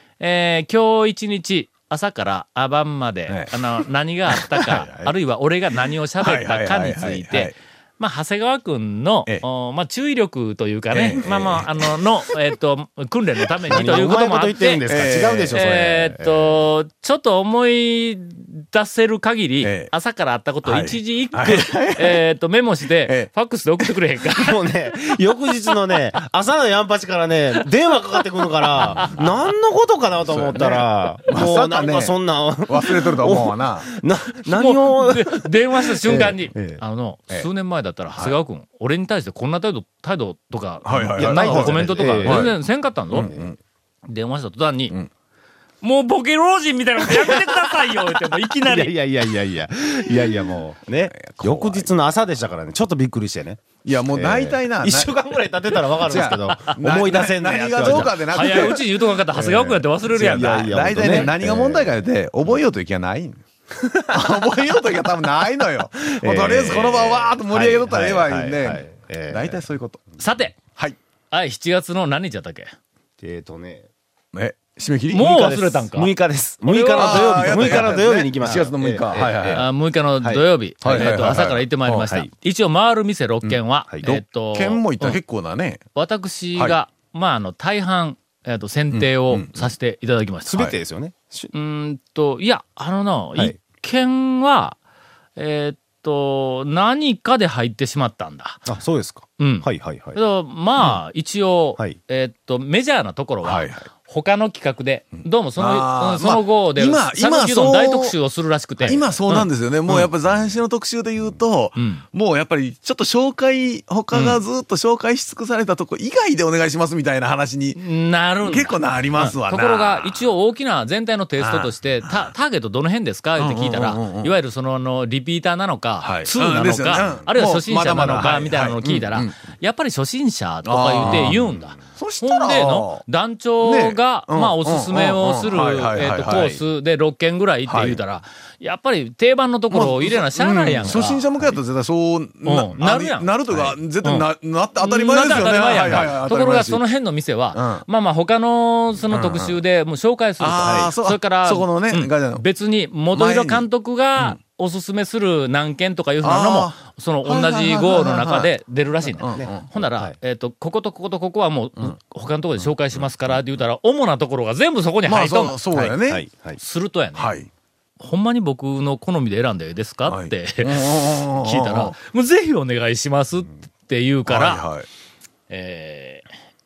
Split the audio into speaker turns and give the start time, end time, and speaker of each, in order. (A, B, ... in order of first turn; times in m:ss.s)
0:00.2-0:24.6 A
0:03.3-0:03.6 B
0:04.3-0:05.1 B
0:06.2-0:07.6 B
0:10.9-0:12.0 B
0:13.7-0:16.5 C
0:14.9-0:15.6 B
0:19.6-0:19.9 B
0:20.6-0:22.2 B
0:23.0-0:23.3 B
0:24.4-0:36.7 C
0:28.8-0:29.1 A
0:28.8-0:29.2 B
0:30.2-0:32.2 B
0:32.7-0:33.9 B
0:34.5-0:43.3 A
0:40.8-0:42.6 B
0:41.2-0:42.5 C
0:43.1-0:43.6 B
0:43.2-0:43.5 C
0:44.1-0:44.9 A
0:45.8-0:48.9 A
0:48.6-0:58.1 C
0:51.2-0:51.9 B
0:53.8-0:55.2 B
0:56.0-1:10.0 B
0:56.5-0:56.8 A
0:57.8-1:01.3 A
1:00.1-1:01.9 C
1:06.0-1:09.6 C
1:10.2-1:10.6 A
1:11.3-1:12.7 A
1:13.2-1:13.9 C
1:14.3-1:15.3 B
1:15.1-1:16.1 A
1:15.1-1:19.7 C
1:16.7-1:18.6 A
1:17.0-1:19.7 B
1:19.2-1:25.2 A
1:20.2-1:21.1 C
1:20.8-1:22.1 B
1:23.4-1:25.8 B
1:26.0-1:30.8 A
1:28.9-1:29.7 B
1:30.5-1:31.5 C
1:31.5-1:34.8 A
1:35.4-1:38.6 A
1:38.7-1:40.2 C
1:39.4-1:50.1 A
1:43.4-1:43.8 B
1:45.6-1:48.2 B
1:48.8-1:57.8 B
1:51.8-1:52.0 A
1:54.1-1:54.4 A
1:57.8-2:21.3 A
1:58.4-2:00.2 B
2:01.4-2:02.3 B
2:03.4-2:04.3 B
2:06.0-2:09.4 B
2:10.6-2:13.0 B
2:11.1-2:11.4 C
2:13.6-2:16.5 B
2:16.3-2:16.6 C
2:17.7-2:18.0 B
2:19.7-2:26.8 B
2:22.4-2:24.3 A
2:24.8-2:45.6 A
2:27.6-2:27.8 B
2:29.1-2:29.6 B
2:30.4-2:32.4 B
2:33.1-2:33.6 B
2:36.2-2:38.5 B
2:39.2-2:39.7 B
2:39.4-2:40.1 C
2:45.1-2:46.2 B
2:45.7-2:46.6 C
2:46.6-2:47.3 A
2:47.2-2:47.5 B
2:48.0-2:54.6 A
2:50.1-2:52.0 B
2:54.3-2:54.9 B
2:55.5-2:56.3 A